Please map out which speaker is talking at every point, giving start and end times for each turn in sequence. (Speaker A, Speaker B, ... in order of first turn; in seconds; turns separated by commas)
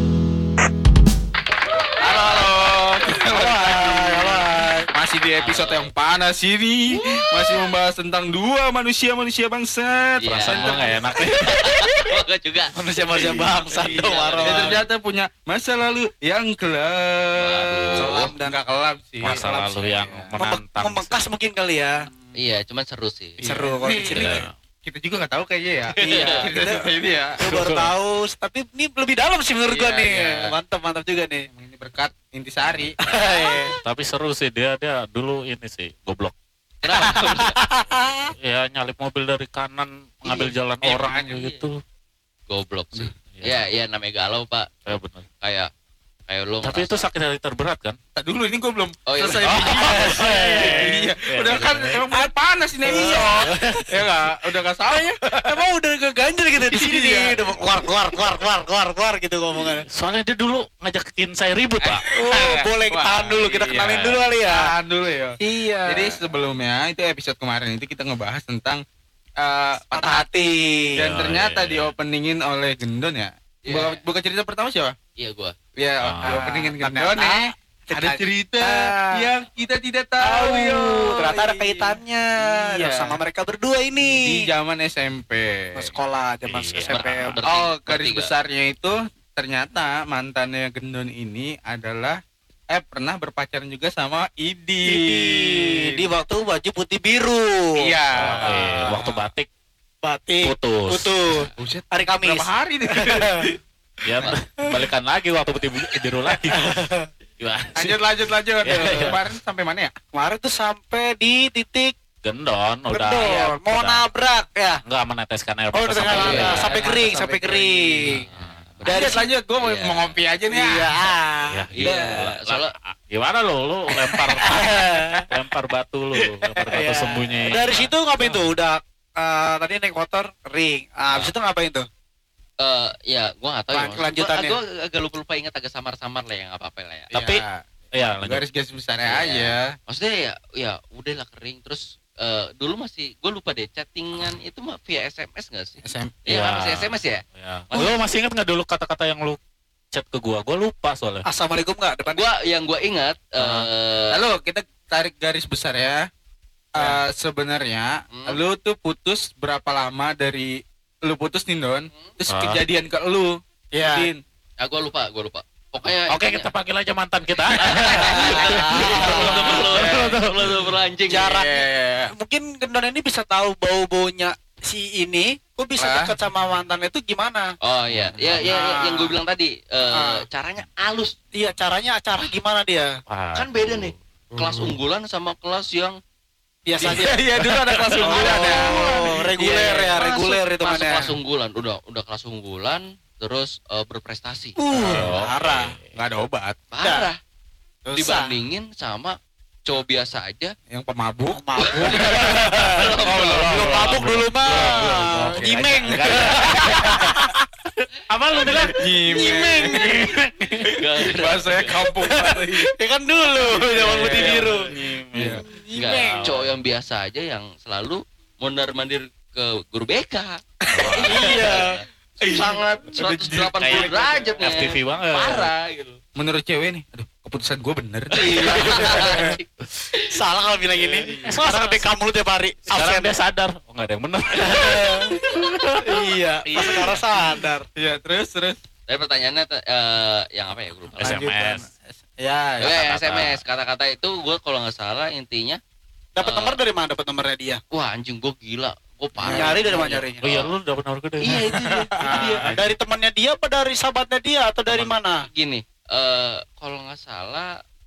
Speaker A: 2.0-11.0, Speaker B: 2.1-2.5, Speaker C: 3.3-4.9, Speaker B: 5.3-5.9, Speaker B: 10.2-12.8, Speaker D: 10.4-11.6, Speaker C: 12.8-14.8, Speaker D: 13.2-14.0, Speaker B: 13.7-14.8, Speaker A: 14.4-20.3, Speaker B: 17.4-18.3, Speaker C: 18.0-18.6, Speaker D: 19.2-21.1, Speaker C: 19.2-19.8, Speaker C: 20.4-21.9, Speaker B: 22.4-23.4, Speaker A: 23.4-27.4, Speaker C: 23.4-24.5, Speaker D: 24.1-24.5, Speaker C: 26.0-31.5, Speaker B: 26.0-26.4, Speaker D: 27.4-27.9, Speaker B: 29.7-30.5, Speaker A: 31.5-33.0, Speaker C: 33.0-33.8, Speaker B: 33.2-33.7, Speaker D: 33.9-36.3, Speaker B: 36.8-37.6, Speaker C: 37.1-38.3, Speaker D: 37.9-41.8, Speaker C: 40.3-40.5, Speaker B: 40.8-41.7, Speaker B: 42.5-44.9, Speaker D: 43.0-43.6, Speaker D: 44.9-45.3, Speaker B: 45.4-45.7, Speaker B: 46.3-46.9, Speaker D: 46.6-48.0, Speaker A: 48.1-55.6, Speaker B: 49.1-49.8, Speaker D: 49.5-52.0, Speaker C: 49.7-51.1, Speaker C: 52.1-53.8, Speaker D: 53.4-54.1, Speaker C: 55.4-59.9, Speaker A: 56.6-57.6, Speaker D: 59.9-62.0, Speaker A: 61.8-68.8, Speaker C: 62.1-64.7, Speaker D: 63.8-64.3, Speaker C: 65.4-66.2, Speaker A: 69.4-70.3, Speaker C: 69.9-70.9, Speaker A: 71.0-75.0, Speaker D: 71.0-71.9, Speaker B: 73.7-74.0, Speaker B: 75.2-75.5, Speaker A: 75.8-83.2, Speaker D: 76.0-76.4, Speaker C: 76.2-79.1, Speaker C: 80.2-84.4, Speaker A: 84.0-85.9, Speaker C: 85.7-87.4, Speaker D: 86.5-87.4, Speaker B: 86.9-88.3, Speaker A: 87.5-92.2, Speaker A: 92.7-96.1, Speaker C: 94.8-98.6, Speaker A: 97.8-99.2, Speaker D: 98.1-99.5, Speaker C: 100.0-103.5, Speaker D: 100.4-101.1, Speaker A: 101.6-103.6, Speaker D: 104.0-106.7, Speaker C: 106.5-107.1, Speaker D: 107.4-108.0, Speaker A: 107.8-109.9, Speaker D: 108.6-109.2, Speaker C: 110.1-111.9, Speaker D: 112.2-114.0, Speaker C: 112.9-114.8, Speaker D: 114.8-116.7, Speaker C: 115.7-118.2, Speaker A: 116.1-118.2, Speaker B: 116.1-116.9, Speaker B: 118.2-120.2, Speaker D: 118.3-118.6, Speaker C: 118.8-119.3, Speaker A: 118.8-121.1, Speaker C: 120.5-121.7, Speaker D: 121.5-128.4, Speaker B: 121.7-122.7, Speaker A: 121.8-122.2, Speaker C: 124.2-125.3, Speaker C: 126.6-131.9, Speaker B: 132.6-137.1, Speaker C: 133.7-134.6, Speaker D: 137.1-137.4, Speaker A: 137.1-137.6, Speaker D: 138.0-138.4, Speaker A: 138.2-139.8, Speaker B: 139.0-148.0, Speaker A: 145.8-146.2, Speaker D: 146.3-149.4, Speaker D: 149.9-151.3, Speaker C: 151.3-152.2, Speaker B: 152.1-154.2, Speaker D: 153.4-153.7, Speaker A: 154.1-156.1, Speaker A: 156.7-164.2, Speaker C: 156.8-157.0, Speaker B: 158.1-158.4, Speaker D: 162.3-162.6, Speaker C: 163.7-164.1, Speaker B: 164.6-166.5, Speaker D: 165.8-170.7, Speaker B: 167.6-171.3, Speaker A: 167.9-170.1, Speaker C: 168.2-169.4, Speaker C: 171.1-177.5, Speaker A: 171.1-172.1, Speaker A: 175.8-176.1, Speaker B: 177.6-181.2, Speaker A: 178.2-178.5, Speaker C: 178.5-179.1, Speaker C: 179.9-180.2, Speaker C: 181.3-182.9, Speaker D: 183.1-183.9, Speaker B: 183.3-186.0, Speaker A: 184.3-184.8, Speaker C: 186.7-187.2, Speaker B: 186.8-188.7, Speaker A: 186.8-190.0, Speaker C: 188.0-191.1, Speaker B: 189.4-194.6, Speaker C: 194.6-195.7, Speaker A: 194.7-195.2, Speaker D: 194.8-195.9, Speaker A: 195.9-196.6, Speaker B: 196.7-197.2, Speaker C: 196.8-197.1, Speaker C: 197.9-198.3, Speaker B: 197.9-200.5, Speaker A: 200.7-203.8, Speaker C: 201.3-207.4, Speaker B: 201.6-204.2, Speaker D: 202.0-207.2, Speaker A: 204.4-207.3, Speaker D: 207.8-208.8, Speaker A: 208.4-210.1, Speaker C: 208.6-210.1, Speaker B: 209.1-209.5, Speaker D: 209.7-210.8, Speaker B: 210.7-211.8, Speaker A: 210.9-212.7, Speaker C: 211.9-216.3, Speaker A: 213.4-215.4, Speaker D: 213.8-216.6, Speaker B: 215.7-226.0, Speaker A: 220.7-221.5, Speaker D: 220.7-221.5, Speaker C: 221.0-221.8, Speaker A: 222.2-224.3, Speaker D: 223.6-225.5, Speaker A: 226.2-229.3, Speaker B: 228.1-229.4, Speaker C: 228.2-229.4, Speaker C: 230.0-233.2, Speaker D: 230.8-231.9, Speaker A: 231.1-231.3, Speaker D: 232.7-237.0, Speaker C: 234.3-235.2, Speaker C: 235.8-237.7, Speaker A: 237.8-238.6, Speaker B: 238.9-241.2, Speaker D: 241.0-241.7, Speaker A: 241.0-242.8, Speaker B: 242.6-245.6, Speaker D: 242.6-243.4, Speaker C: 246.2-247.6, Speaker B: 246.2-246.6, Speaker B: 247.7-250.5, Speaker A: 249.2-250.0, Speaker C: 249.3-250.3, Speaker D: 250.2-251.5, Speaker B: 251.2-252.5, Speaker A: 251.4-252.5, Speaker C: 252.0-255.3, Speaker D: 252.4-252.8, Speaker D: 254.7-254.9, Speaker B: 255.3-257.5